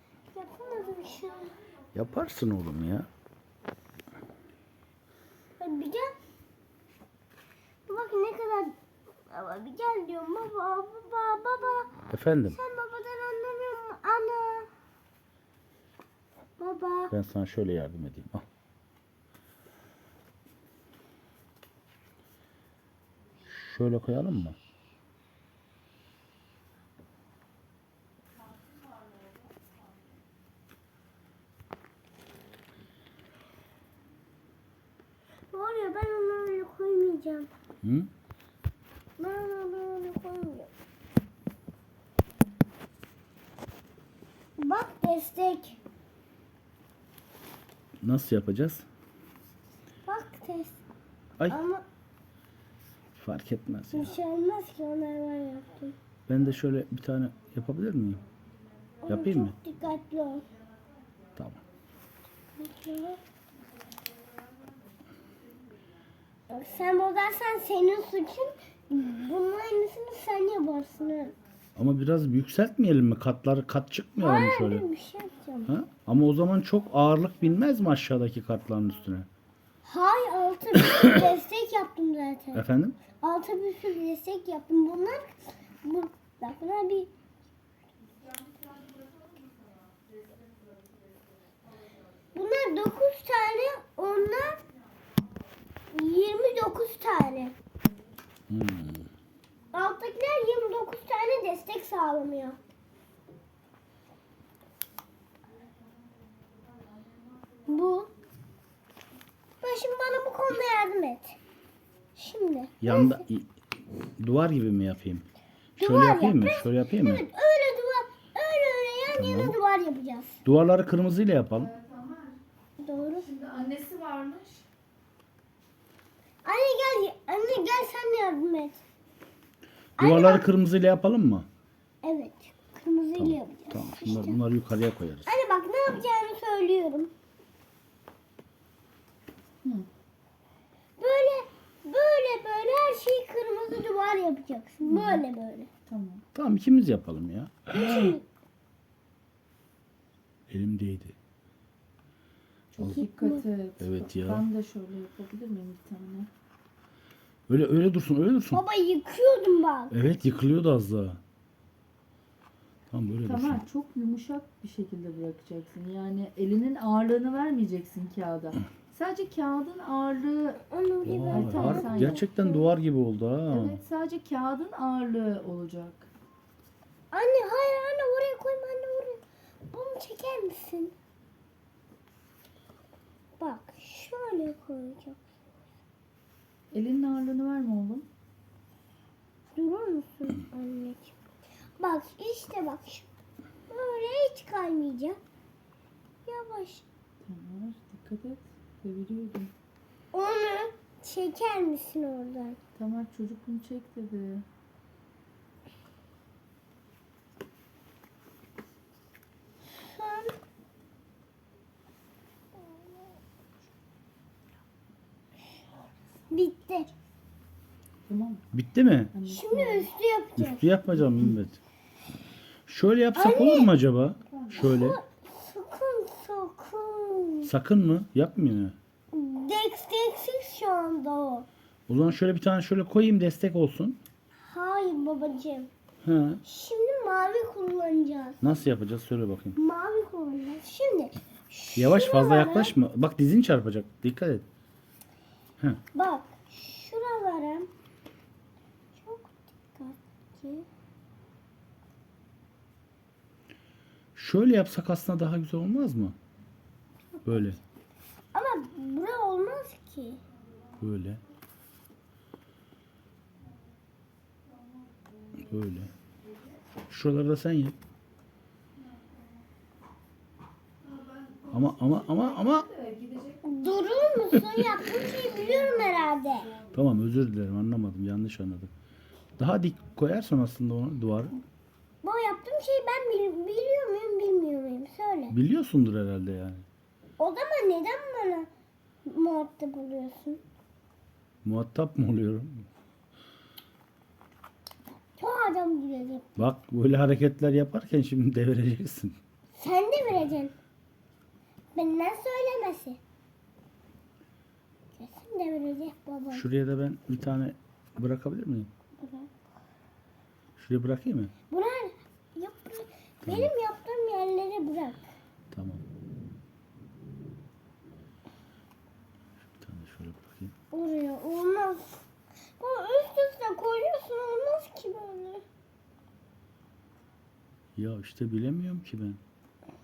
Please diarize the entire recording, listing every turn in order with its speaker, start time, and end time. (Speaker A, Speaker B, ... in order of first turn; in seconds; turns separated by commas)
Speaker A: 0.3-1.5, Speaker B: 1.9-3.1, Speaker A: 5.6-6.1, Speaker A: 7.9-8.7, Speaker A: 9.3-14.7, Speaker B: 12.1-12.6, Speaker A: 16.6-17.1, Speaker B: 17.1-18.4, Speaker B: 23.4-24.6, Speaker A: 35.5-37.5, Speaker B: 37.8-38.1, Speaker A: 39.2-40.7, Speaker A: 44.6-45.8, Speaker B: 48.0-48.8, Speaker A: 50.1-50.8, Speaker A: 51.5-51.8, Speaker B: 53.1-54.1, Speaker A: 53.9-55.9, Speaker B: 56.3-58.2, Speaker B: 59.0-59.5, Speaker A: 59.0-60.5, Speaker B: 61.4-61.6, Speaker A: 62.6-63.2, Speaker A: 66.5-71.3, Speaker B: 71.8-74.8, Speaker A: 74.2-75.7, Speaker B: 75.7-79.3, Speaker A: 79.8-82.6, Speaker B: 82.5-83.0, Speaker A: 83.2-87.1, Speaker C: 88.3-90.3, Speaker A: 92.3-94.6, Speaker A: 95.9-97.5, Speaker B: 98.5-99.1, Speaker A: 99.7-102.6, Speaker A: 107.7-108.1, Speaker A: 109.6-111.4, Speaker A: 112.2-113.2, Speaker B: 112.8-113.5, Speaker B: 114.2-115.2, Speaker A: 115.8-120.4, Speaker B: 115.8-117.2, Speaker B: 119.1-119.5, Speaker B: 120.4-121.7, Speaker C: 121.5-122.4, Speaker A: 122.8-123.3, Speaker C: 123.2-124.6, Speaker A: 126.4-128.8, Speaker A: 130.0-130.4, Speaker B: 130.0-131.5, Speaker A: 132.0-134.4, Speaker B: 133.2-135.3, Speaker A: 135.2-137.1, Speaker A: 141.0-145.7, Speaker C: 144.8-145.2, Speaker C: 145.9-146.2, Speaker B: 146.3-148.2, Speaker A: 147.7-148.2, Speaker B: 150.5-151.1, Speaker C: 152.7-156.3, Speaker A: 152.9-153.4, Speaker B: 153.8-154.4, Speaker B: 157.5-158.6, Speaker A: 158.5-159.9, Speaker B: 159.9-161.2, Speaker B: 162.9-163.6, Speaker C: 163.2-170.6, Speaker A: 170.7-172.7, Speaker B: 171.0-173.8, Speaker C: 171.3-172.2, Speaker C: 173.5-176.1, Speaker A: 177.1-180.9, Speaker A: 183.4-185.2, Speaker C: 186.7-188.1, Speaker A: 189.5-191.1, Speaker A: 191.8-193.1, Speaker A: 193.7-195.2, Speaker A: 196.2-196.8, Speaker C: 197.2-199.5, Speaker A: 200.1-202.6, Speaker C: 202.8-204.4, Speaker A: 209.7-210.3, Speaker A: 216.3-216.9, Speaker C: 218.1-218.4, Speaker B: 218.5-219.1, Speaker C: 219.1-219.9, Speaker A: 219.3-220.7, Speaker B: 220.4-221.6, Speaker B: 222.7-225.0, Speaker A: 223.1-223.7, Speaker C: 224.2-224.7, Speaker A: 224.6-227.5, Speaker B: 227.4-228.8, Speaker A: 229.1-231.5, Speaker B: 231.9-234.0, Speaker A: 234.4-235.7, Speaker B: 236.0-236.4, Speaker A: 236.4-238.4, Speaker B: 238.4-239.6, Speaker A: 239.5-242.7, Speaker B: 241.8-244.4, Speaker A: 245.9-247.7, Speaker A: 248.9-250.7, Speaker B: 254.2-256.1, Speaker A: 257.1-257.5, Speaker B: 257.2-257.6, Speaker A: 258.3-260.2, Speaker B: 260.8-261.2, Speaker C: 264.8-265.5, Speaker B: 265.4-265.9, Speaker B: 266.9-267.8, Speaker C: 268.8-269.2, Speaker C: 270.8-273.4, Speaker B: 271.5-272.7, Speaker A: 273.4-276.5, Speaker C: 275.6-276.7, Speaker B: 276.7-278.7, Speaker B: 279.4-281.3, Speaker A: 282.0-285.3, Speaker B: 285.3-286.6, Speaker A: 287.2-288.5, Speaker A: 289.0-290.4, Speaker B: 291.4-292.7, Speaker A: 295.2-296.3, Speaker B: 296.4-299.1, Speaker A: 299.6-300.5, Speaker A: 301.7-303.0, Speaker A: 304.9-306.4, Speaker B: 306.3-308.7, Speaker A: 309.0-309.3, Speaker B: 310.6-311.3, Speaker A: 311.5-315.1, Speaker B: 313.2-313.5, Speaker B: 315.5-315.8, Speaker B: 319.6-320.5, Speaker A: 320.7-322.0, Speaker A: 322.6-325.4, Speaker B: 327.8-329.2